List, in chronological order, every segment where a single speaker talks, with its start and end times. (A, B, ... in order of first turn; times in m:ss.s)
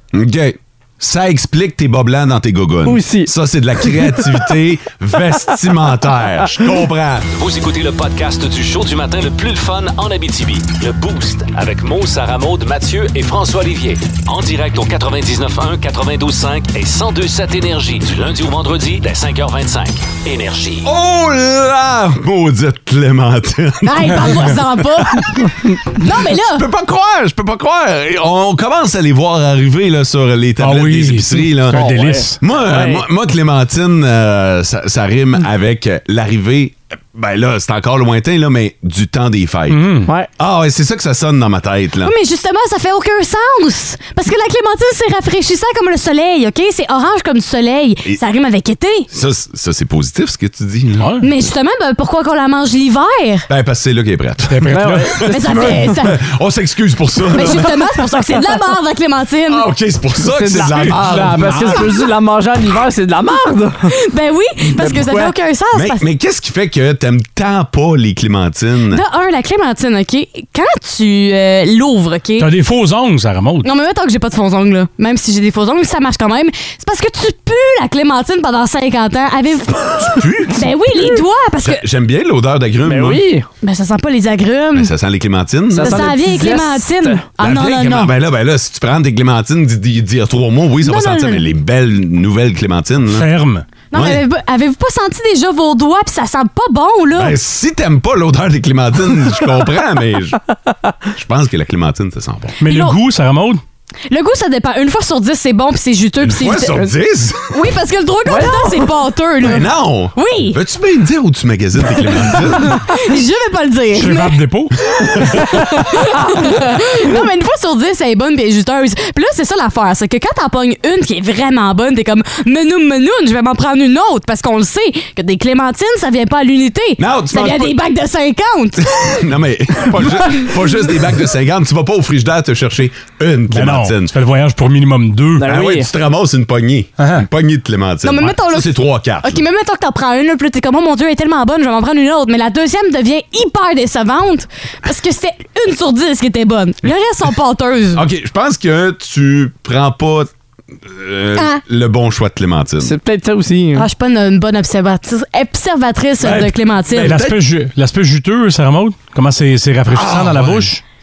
0:00.1-0:07.3 A
0:02.8-0:04.2 B
0:07.4-0:20.8 C
0:20.8-0:24.6 A
0:23.8-0:26.6 D
0:26.1-0:42.1 A
0:30.6-0:32.4 E
0:31.7-0:33.0 B
0:39.7-0:40.1 E
0:42.0-0:49.1 D
0:49.1-0:51.1 A
0:51.0-0:51.2 E
0:51.2-0:53.5 D
0:53.5-0:54.8 A
0:54.5-0:55.2 E
0:54.7-0:55.9 B
0:55.3-0:56.2 D
0:56.0-0:57.8 A
0:57.3-0:59.6 D
0:59.5-1:01.8 A
1:00.3-1:03.9 B
1:00.8-1:01.8 E
1:04.0-1:06.0 D
1:04.8-1:05.3 B
1:05.7-1:09.0 A
1:08.9-1:12.5 D
1:12.4-1:13.7 E
1:13.6-1:21.8 D
1:20.0-1:20.7 A
1:21.6-1:23.2 A
1:22.8-1:23.5 B
1:23.6-1:24.9 D
1:24.7-1:26.1 A
1:25.7-1:27.3 B
1:25.8-1:28.1 D
1:27.4-1:33.2 A
1:30.8-1:31.4 D
1:33.1-1:33.6 E
1:33.9-1:37.4 D
1:33.9-1:34.2 A
1:37.1-1:40.4 A
1:41.1-1:42.6 A
1:42.6-1:43.0 D
1:42.6-1:43.6 E
1:44.1-1:46.9 D
1:46.2-1:47.5 A
1:47.5-1:50.6 D
1:48.3-1:48.9 B
1:49.4-1:52.8 A
1:52.5-1:54.4 D
1:53.9-1:54.8 E
1:55.2-2:09.2 D
2:07.0-2:07.8 A
2:08.8-2:14.1 A
2:13.5-2:15.5 E
2:15.4-2:15.9 B
2:15.4-2:19.4 A
2:17.0-2:17.3 E
2:18.0-2:28.0 D
2:27.9-2:30.3 A
2:30.8-2:32.9 A
2:31.4-2:31.6 D
2:32.8-2:33.9 B
2:33.7-2:37.1 D
2:36.2-2:40.8 E
2:36.9-2:37.4 A
2:39.9-2:40.7 A